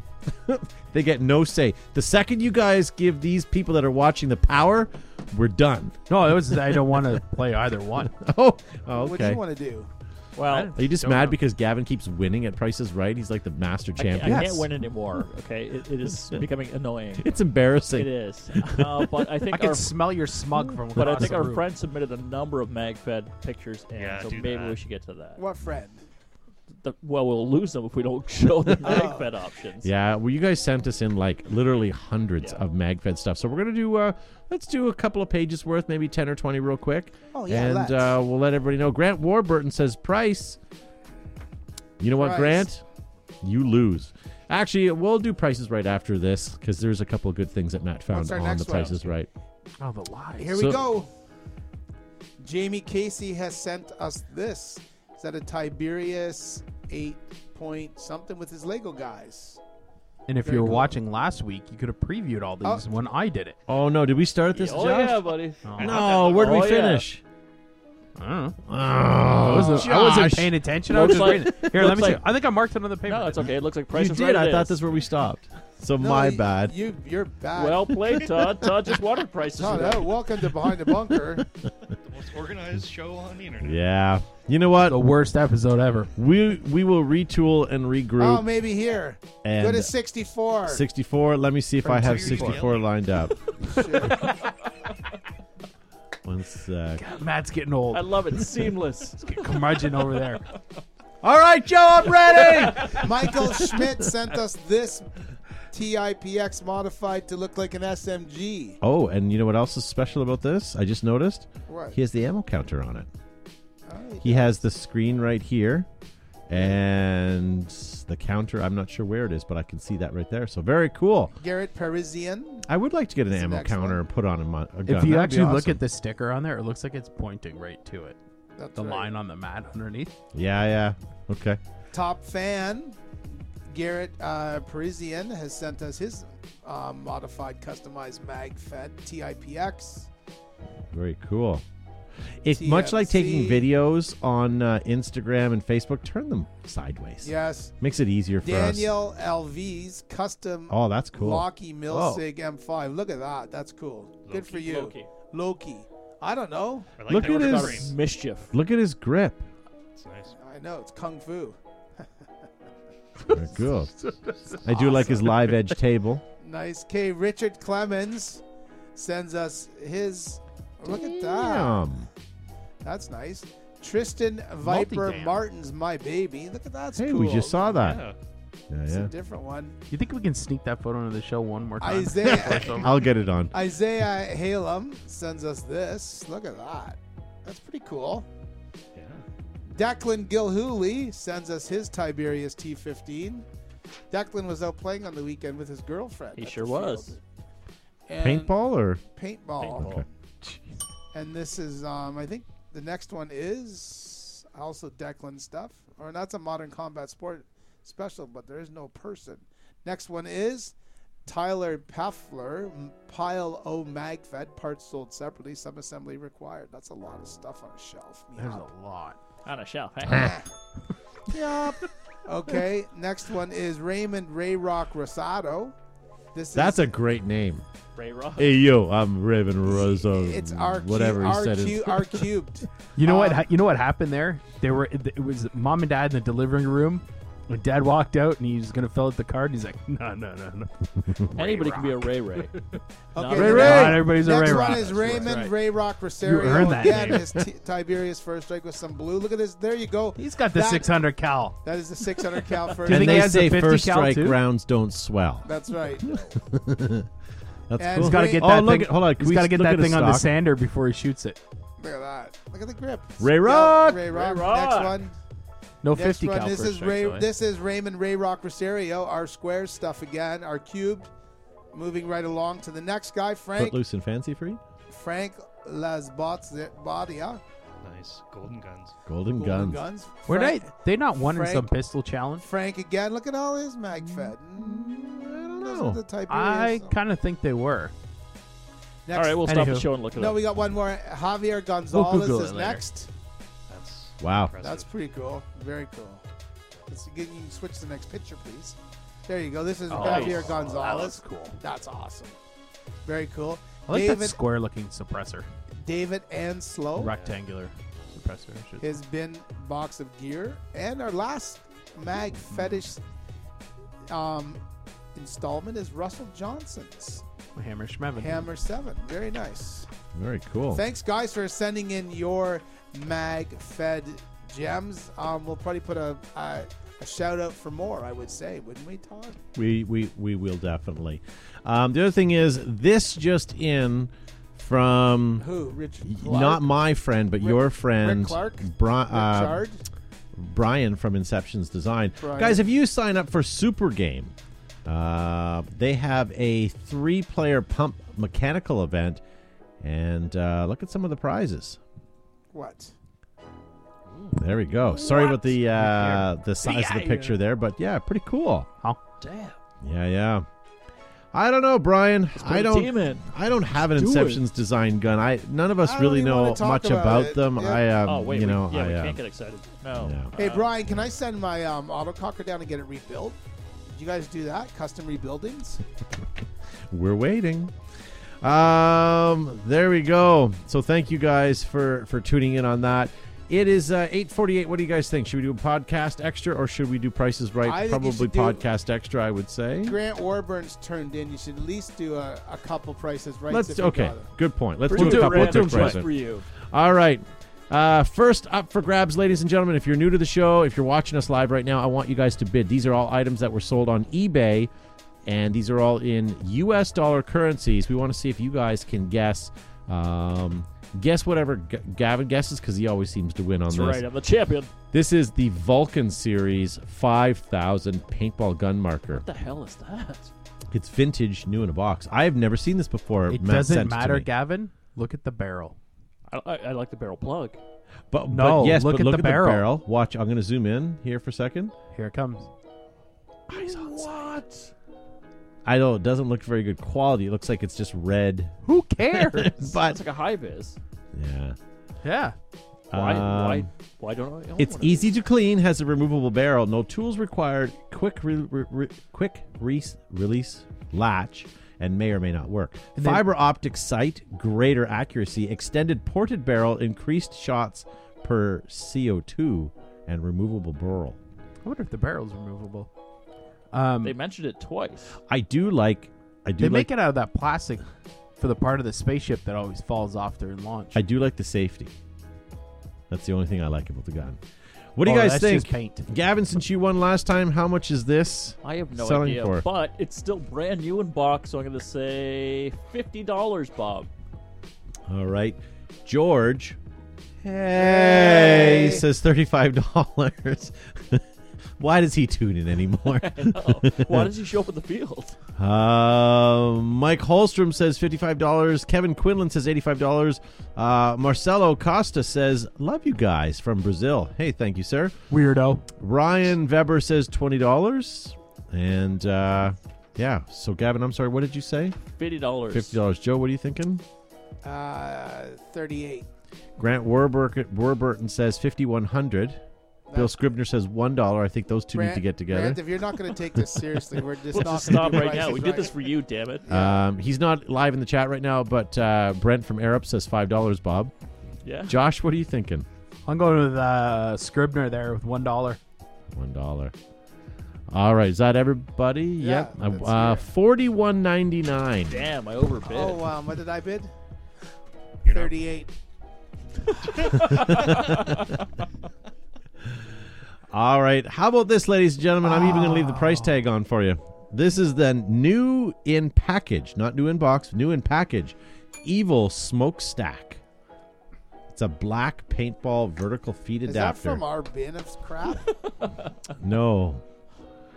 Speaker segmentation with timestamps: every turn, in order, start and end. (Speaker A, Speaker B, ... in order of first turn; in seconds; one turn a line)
Speaker A: 0.4-7.2
Speaker B: 6.1-8.1
Speaker A: 8.1-9.4
Speaker C: 8.9-9.9
Speaker D: 10.3-11.3
Speaker B: 10.5-10.9
Speaker A: 10.7-14.6
Speaker D: 14.0-17.3
Speaker B: 14.2-14.7
Speaker A: 17.2-19.0
Speaker D: 17.9-20.0
Speaker B: 19.5-21.6
Speaker D: 20.9-25.4
Speaker E: 23.9-24.8
Speaker C: 25.4-26.0
Speaker D: 26.8-29.9
Speaker C: 28.8-29.3
Speaker A: 29.8-40.6
Speaker C: 37.3-38.2
Speaker A: 42.0-42.8
Speaker C: 42.1-42.7
Speaker A: 43.4-49.3
Speaker C: 48.1-49.2
Speaker B: 49.8-50.7
Speaker C: 50.4-51.1
Speaker A: 50.5-50.8
Speaker C: 52.4-59.6
Speaker B: 60.3-63.6
Speaker C: 60.4-61.0
Speaker C: 62.6-62.9
Speaker A: 63.7-67.2
Speaker D: 64.5-67.0
Speaker B: 65.6-66.0
Speaker E: 65.7-66.7
Speaker B: 68.2-68.6
Speaker A: 68.7-72.1
Speaker B: 69.4-73.5
Speaker D: 70.9-72.2
Speaker D: 73.0-74.8
Speaker A: 73.9-76.7
Speaker C: 76.0-78.2
Speaker D: 77.5-80.2
Speaker C: 79.5-81.5
Speaker E: 81.9-83.9
Speaker A: 83.6-85.0
Speaker B: 84.9-86.1
Speaker A: 86.2-88.5
Speaker C: 88.2-90.8
Speaker A: 89.4-89.9
Speaker A: 90.7-93.3
Speaker B: 91.8-92.6
Speaker E: 91.9-92.9
Speaker C: 93.6-94.3
Speaker B: 93.6-94.5
Speaker A: 96.2-97.0
Speaker B: 97.0-98.5
Speaker D: 97.9-100.3
Speaker B: 99.2-100.4
Speaker A: 101.2-103.0
Speaker C: 102.9-105.1
Speaker C: 105.7-108.8
Speaker A: 108.8-113.1
Speaker C: 111.7-112.0
Speaker C: 113.9-114.6
Speaker A: 114.2-115.9
Speaker A: 116.5-121.3
Speaker C: 116.5-116.8
Speaker C: 121.3-122.7
Speaker A: 122.7-125.8
Speaker C: 123.3-124.0
Speaker B: 124.9-128.2
Speaker C: 128.6-129.1
Speaker B: 128.8-130.1
Speaker A: 130.3-131.6
Speaker C: 131.9-133.0
Speaker C: 133.7-140.1
Speaker A: 140.9-141.6
Speaker A: 142.4-148.9
Speaker C: 142.5-143.7
Speaker C: 147.2-147.7
Speaker C: 148.4-156.9
Speaker A: 150.7-151.5
Speaker B: 151.9-152.2
Speaker D: 154.5-155.1
Speaker E: 157.0-157.9
Speaker A: 157.1-157.9
Speaker D: 157.1-158.5
Speaker A: 158.5-159.4
Speaker E: 159.9-160.3
Speaker C: 160.3-162.1
Speaker A: 163.3-163.9
Speaker B: 164.0-165.6
Speaker A: 164.6-166.2
Speaker C: 164.7-165.1
Speaker C: 166.4-168.4
Speaker C: 168.9-171.9
Speaker A: 170.8-172.1
Speaker C: 172.8-178.0
Speaker B: 174.6-175.4
Speaker A: 176.9-178.1
Speaker E: 177.8-178.2
Speaker A: 178.7-179.1
Speaker C: 178.9-179.8
Speaker B: 179.9-183.0
Speaker C: 181.8-182.9
Speaker A: 182.2-183.5
Speaker C: 183.5-188.3
Speaker E: 188.9-189.2
Speaker C: 189.7-193.4
Speaker C: 194.1-197.2
Speaker D: 196.3-197.2
Speaker C: 198.1-200.0
Speaker A: 198.2-199.0
Speaker D: 199.6-200.0
Speaker A: 199.8-200.0
Speaker C: 201.1-210.7
Speaker C: 211.2-218.7
Speaker B: 218.4-219.2
Speaker D: 219.4-220.4
Speaker C: 220.1-220.5
Speaker C: 221.3-225.7
Speaker C: 226.3-226.9
Speaker A: 226.5-227.6
Speaker D: 227.9-228.4
Speaker A: 228.4-232.2
Speaker C: 229.6-233.5
Speaker B: 232.9-242.5
Speaker D: 241.3-244.8
Speaker C: 243.1-250.9
Speaker A: 243.3-244.1
Speaker B: 243.3-245.5
Speaker B: 246.2-247.2
Speaker A: 247.0-247.4
Speaker B: 250.2-251.6
Speaker C: 251.6-253.5
Speaker B: 252.7-254.4
Speaker A: 252.9-255.5
Speaker C: 255.4-256.3
Speaker A: 256.1-257.1
Speaker A: 257.7-260.3
Speaker C: 257.8-258.6
Speaker B: 257.9-261.4
Speaker C: 261.8-265.1
Speaker A: 263.2-264.1
Speaker D: 264.0-265.0
Speaker B: 265.8-267.3
Speaker C: 265.9-271.1
Speaker C: 271.7-273.8
Speaker A: 273.6-274.6
Speaker C: 274.9-277.4
Speaker E: 277.8-278.9
Speaker A: 279.1-279.8
Speaker C: 279.3-281.7
Speaker B: 280.3-282.4
Speaker C: 282.4-287.0
Speaker A: 284.1-286.0
Speaker B: 286.3-287.9
Speaker C: 289.1-289.6
Speaker D: 289.1-290.4
Speaker B: 289.4-289.9
Speaker C: 290.1-293.1
Speaker B: 291.9-292.8
Speaker E: 293.7-294.9
Speaker A: 294.2-294.6
Speaker C: 294.6-296.2
Speaker C: 296.9-302.3
Speaker B: 299.9-301.6
Speaker D: 299.9-300.5
Speaker C: 303.0-304.4
Speaker B: 303.9-305.5
Speaker C: 305.8-307.2
Speaker B: 307.0-308.9
Speaker E: 307.1-307.4
Speaker C: 308.8-313.0
Speaker C: 314.1-314.6
Speaker C: 315.1-317.2
Speaker B: 317.6-318.5
Speaker C: 318.1-319.9
Speaker A: 320.1-320.8
Speaker C: 320.7-329.4
Speaker A: 329.5-335.4
Speaker C: 335.4-336.8
Speaker A: 336.0-339.6
Speaker C: 337.4-339.8
Speaker A: 340.3-344.3
Speaker C: 342.2-342.6
Speaker A: 344.9-349.2
Speaker A: 349.8-351.8
Speaker C: 352.5-352.9
Speaker A: 354.3-358.7
Speaker B: 354.9-356.3
Speaker D: 356.6-357.3
Speaker D: 359.2-359.6
Speaker A: 359.8-360.4
Speaker A: 361.3-369.2
Speaker D: 362.4-364.4
Speaker C: 365.8-367.8
Speaker D: 368.0-370.7
Speaker A: 369.9-370.3
Speaker C: 370.4-375.8
Speaker A: 376.9-377.7
Speaker A: 378.4-390.0
Speaker C: 387.6-388.6
Speaker C: 389.8-394.3
Speaker A: 393.5-396.1
Speaker D: 394.9-396.5
Speaker B: 394.9-396.0
Speaker A: 396.7-404.7
Speaker A: 405.2-414.0
Speaker D: 413.7-414.7
Speaker A: 414.9-419.2
Speaker D: 419.1-420.3
Speaker A: 420.7-424.3
Speaker B: 423.3-425.8
Speaker D: 426.3-427.6
Speaker A: 428.1-431.7
Speaker B: 428.3-429.7
Speaker B: 431.9-432.5
Speaker A: 433.5-433.8
Speaker D: 433.5-434.7
Speaker A: 435.6-438.6
Speaker B: 438.6-439.7
Speaker A: 439.1-440.0
Speaker D: 439.8-440.8
Speaker A: 441.1-441.6
Speaker B: 442.0-442.4
Speaker A: 442.9-443.7
Speaker D: 442.9-445.1
Speaker A: 444.6-461.2
Speaker B: 453.0-453.2
Speaker B: 461.6-462.9
Speaker B: 463.7-464.1
Speaker D: 464.0-465.2
Speaker A: 465.3-466.9
Speaker B: 466.6-467.8
Speaker B: 468.4-471.0
Speaker A: 470.9-471.9
Speaker A: 473.1-474.4
Speaker A: 474.9-479.6
Speaker B: 475.0-476.0
Speaker D: 478.6-484.1
Speaker A: 485.1-486.8
Speaker A: 487.4-491.2
Speaker C: 487.7-489.0
Speaker A: 491.8-494.3
Speaker D: 493.0-495.3
Speaker A: 495.6-505.2
Speaker B: 505.3-505.8
Speaker A: 506.0-512.0
Speaker D: 512.2-513.0
Speaker A: 512.7-514.0
Speaker C: 514.6-516.3
Speaker A: 516.8-519.6
Speaker C: 520.1-520.4
Speaker A: 520.1-522.8
Speaker C: 521.9-526.1
Speaker D: 524.5-526.6
Speaker C: 526.6-527.0
Speaker A: 526.7-531.1
Speaker D: 531.6-531.9
Speaker A: 531.9-532.9
Speaker B: 533.3-535.8
Speaker A: 536.3-536.9
Speaker A: 537.9-542.2
Speaker C: 539.4-540.5
Speaker D: 542.1-543.3
Speaker C: 542.8-544.1
Speaker E: 545.2-545.5
Speaker C: 545.2-545.9
Speaker D: 547.1-548.5
Speaker A: 547.1-548.5
Speaker A: 550.7-560.6
Speaker B: 552.4-553.4
Speaker A: 561.7-564.4
Speaker C: 563.9-565.7
Speaker A: 566.6-567.2